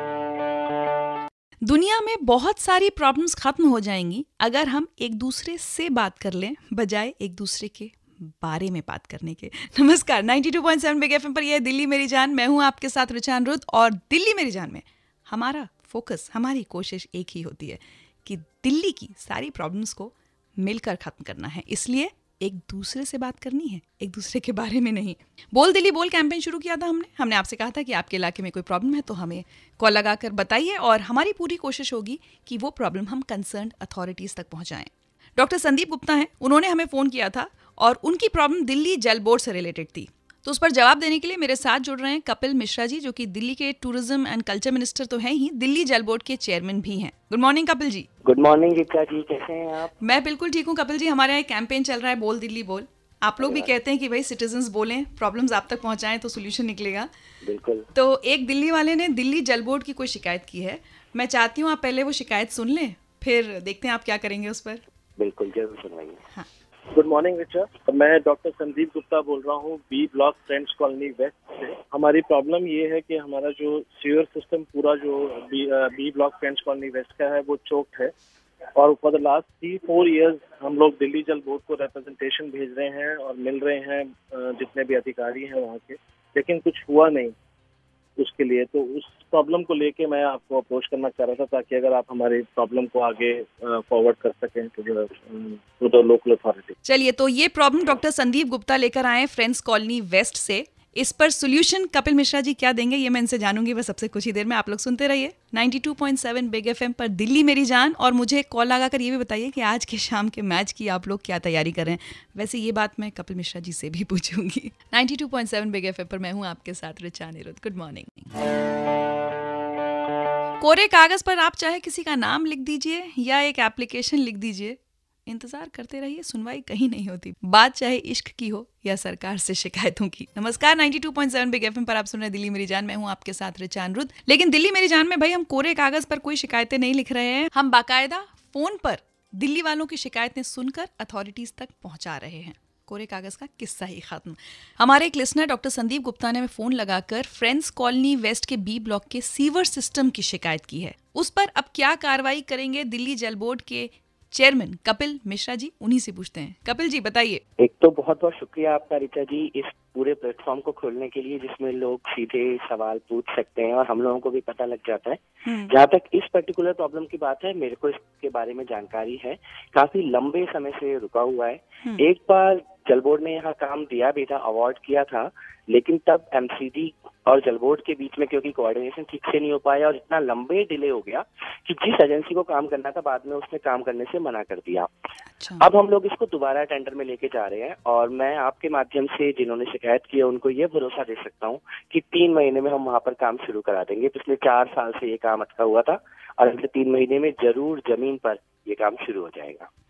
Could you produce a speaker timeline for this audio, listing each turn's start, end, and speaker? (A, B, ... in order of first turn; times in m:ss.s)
0:01.6-0:48.1 A
0:48.2-0:49.9 B
0:50.0-0:57.1 A
0:53.4-0:53.7 B
0:57.4-0:57.9 B
0:57.9-1:04.8 A
1:05.2-1:06.2 B
1:06.9-1:18.1 C
1:18.8-1:27.4 C
1:28.2-1:36.8 C
1:36.8-1:58.3 A
2:00.6-2:37.4 A
2:37.6-3:04.9 B
2:45.5-2:45.7 A
3:05.4-3:05.6 A
3:05.6-3:19.7 B